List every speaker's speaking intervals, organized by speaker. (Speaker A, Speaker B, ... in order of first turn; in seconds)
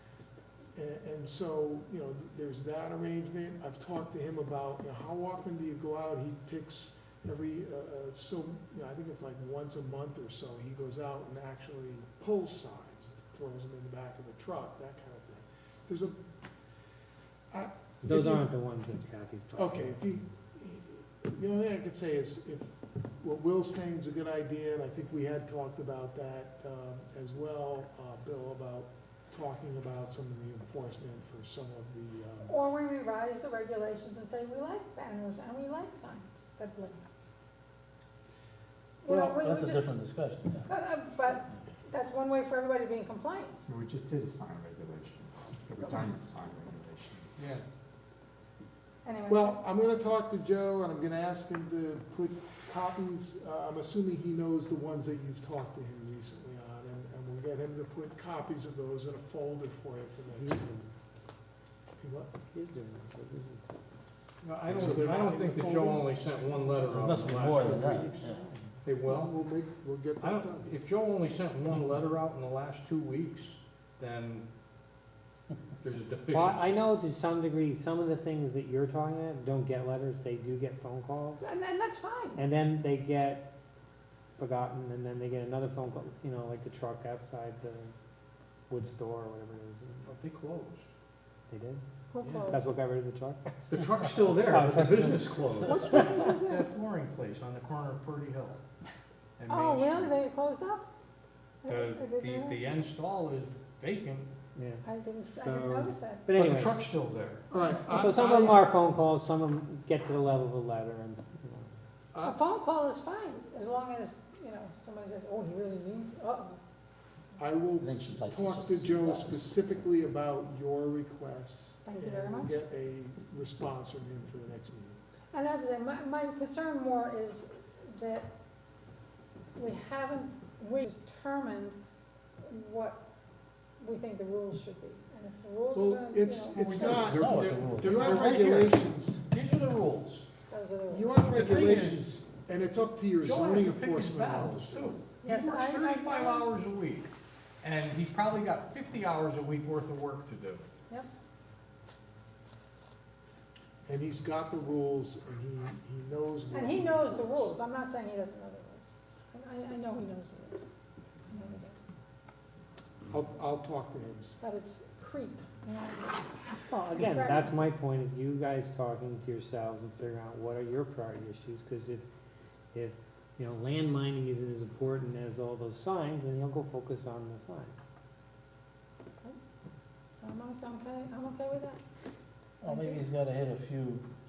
Speaker A: 0.7-16.2, 17.5-18.4, 19.5-32.5, 49.3-60.6, 62.0-62.3, 64.7-66.0, 69.0-70.7, 107.5-108.6, 117.4-125.0, 135.7-139.2, 140.9-144.9, 153.8-157.5, 163.1-164.4
Speaker B: 18.0-19.9, 60.3-60.9, 62.5-63.8, 64.7-65.0, 67.8-68.7, 76.3-81.5, 82.3-83.5, 84.4-87.9, 88.7-90.2, 91.5-91.8, 92.5-93.5, 94.3-95.9, 104.5-106.8, 107.9-111.8, 166.7-172.0, 172.7-177.7
Speaker C: 32.4-37.0, 39.0-39.9, 40.6-43.7, 49.0-49.6, 81.4-82.4, 92.1-92.6, 95.6-96.7, 99.5-100.8, 101.6-102.6, 104.8-106.3, 112.2-116.6, 121.8-122.6, 125.3-128.3, 129.5-131.8, 132.4-133.0, 133.8-137.1, 140.5-141.3, 145.2-146.5, 156.5-160.7, 161.3-161.8, 164.4-167.5, 180.2-181.8, 182.6-183.0
Speaker D: 39.1-40.6, 66.8-68.5, 117.8-119.4, 136.9-138.6, 182.6-184.1
Speaker E: 43.6-47.5
Speaker F: 47.4-47.6, 64.4-68.3, 68.8-69.3, 70.2-74.4, 75.8-76.8, 90.0-90.8, 92.2-92.5, 93.7-98.6, 99.4-100.1, 101.7-104.3, 106.3-107.4, 136.6-140.3, 141.3-142.0, 143.2-147.1, 147.6-150.7